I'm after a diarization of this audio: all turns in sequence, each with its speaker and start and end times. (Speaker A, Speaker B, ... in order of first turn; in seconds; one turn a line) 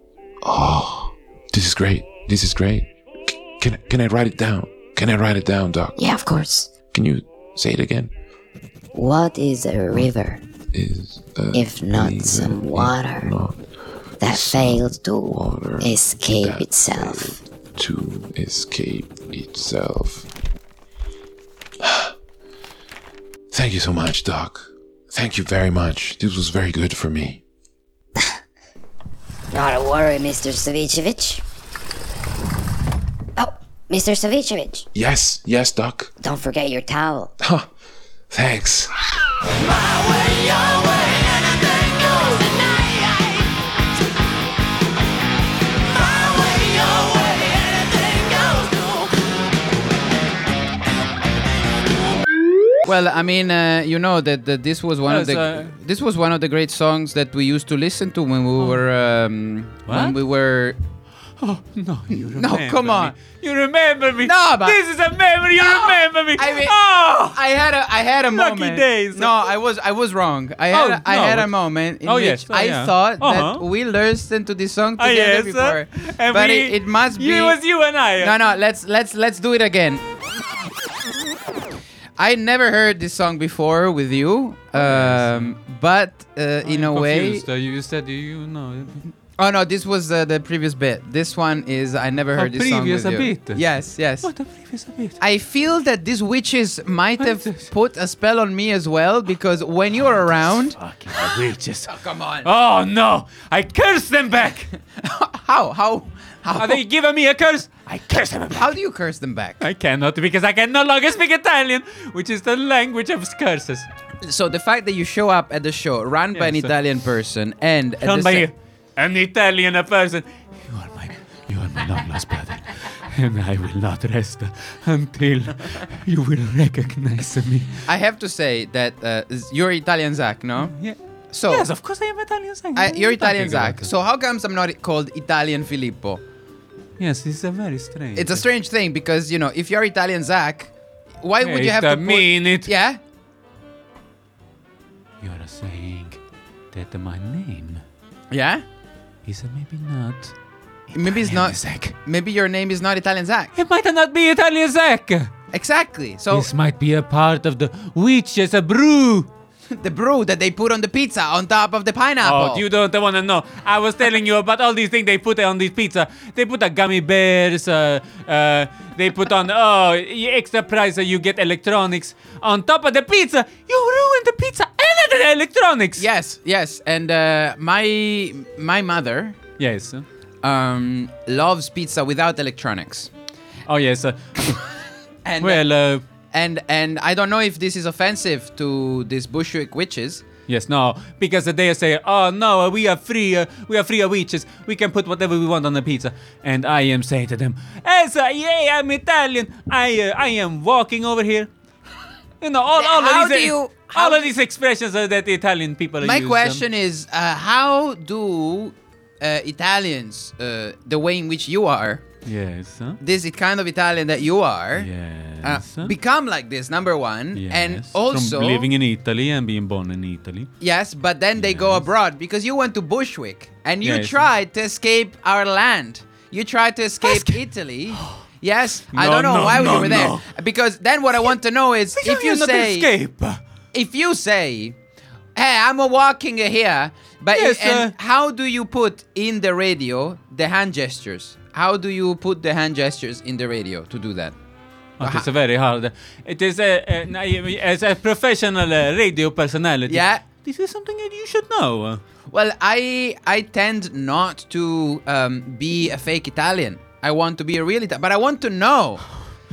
Speaker A: 0.4-2.9
Speaker A: 3.6-6.0
Speaker B: 6.0-6.7
Speaker A: 6.9-8.1
Speaker B: 8.9-10.4
Speaker A: 10.7-13.6
Speaker B: 11.5-13.3
Speaker B: 14.2-17.4
Speaker A: 14.2-20.3
Speaker A: 21.8-22.1
Speaker A: 23.5-27.4
Speaker B: 29.5-31.4
Speaker B: 33.4-34.9
Speaker A: 34.9-36.1
Speaker B: 36.2-37.3
Speaker A: 37.4-37.6
Speaker A: 38.3-38.9
Speaker C: 52.8-60.8
Speaker D: 55.1-55.7
Speaker D: 59.9-60.2
Speaker D: 61.4-67.4
Speaker C: 62.1-63.1
Speaker C: 64.2-64.8
Speaker C: 65.5-77.6
Speaker D: 68.3-69.5
Speaker D: 70.7-71.5
Speaker D: 72.0-73.6
Speaker D: 75.0-78.4
Speaker C: 78.2-80.0
Speaker C: 82.2-87.4
Speaker D: 84.7-85.5
Speaker D: 86.6-89.0
Speaker C: 89.4-94.3
Speaker D: 92.3-93.6
Speaker D: 94.2-95.2
Speaker C: 95.2-100.8
Speaker D: 97.2-97.7
Speaker D: 100.0-101.9
Speaker C: 101.8-102.5
Speaker D: 102.4-104.7
Speaker C: 104.9-106.8
Speaker D: 106.6-108.7
Speaker C: 108.5-109.6
Speaker D: 109.6-113.9
Speaker C: 114.2-118.5
Speaker D: 116.3-116.7
Speaker D: 118.0-127.8
Speaker C: 127.8-130.7
Speaker D: 130.7-133.9
Speaker C: 131.3-131.7
Speaker C: 132.8-136.2
Speaker D: 137.0-138.4
Speaker C: 138.2-140.7
Speaker C: 141.2-143.0
Speaker D: 141.4-142.7
Speaker D: 145.2-146.2
Speaker D: 146.7-147.8
Speaker C: 148.3-148.6
Speaker D: 149.2-150.3
Speaker D: 150.9-151.9
Speaker C: 150.9-153.5
Speaker D: 153.5-155.3
Speaker C: 155.5-156.5
Speaker D: 156.3-159.3
Speaker C: 159.7-162.6
Speaker D: 162.2-176.1
Speaker C: 176.0-179.4
Speaker D: 179.6-180.0
Speaker C: 180.4-183.1
Speaker D: 183.7-184.6
Speaker C: 185.2-185.6
Speaker D: 185.4-186.0
Speaker C: 186.3-190.2
Speaker D: 190.5-201.5
Speaker D: 202.4-206.6
Speaker C: 202.8-204.3
Speaker C: 206.0-212.1
Speaker D: 212.2-213.0
Speaker C: 213.0-214.9
Speaker D: 214.7-215.9
Speaker C: 215.4-218.7
Speaker D: 217.3-220.5
Speaker C: 220.6-232.9
Speaker D: 221.4-221.8
Speaker D: 223.8-224.2
Speaker D: 227.0-228.2
Speaker D: 228.9-230.2
Speaker D: 232.0-233.4
Speaker C: 233.7-234.8
Speaker C: 235.3-244.3
Speaker D: 237.3-237.9
Speaker D: 245.0-252.0
Speaker C: 245.0-245.2
Speaker C: 249.9-250.2
Speaker C: 252.3-259.0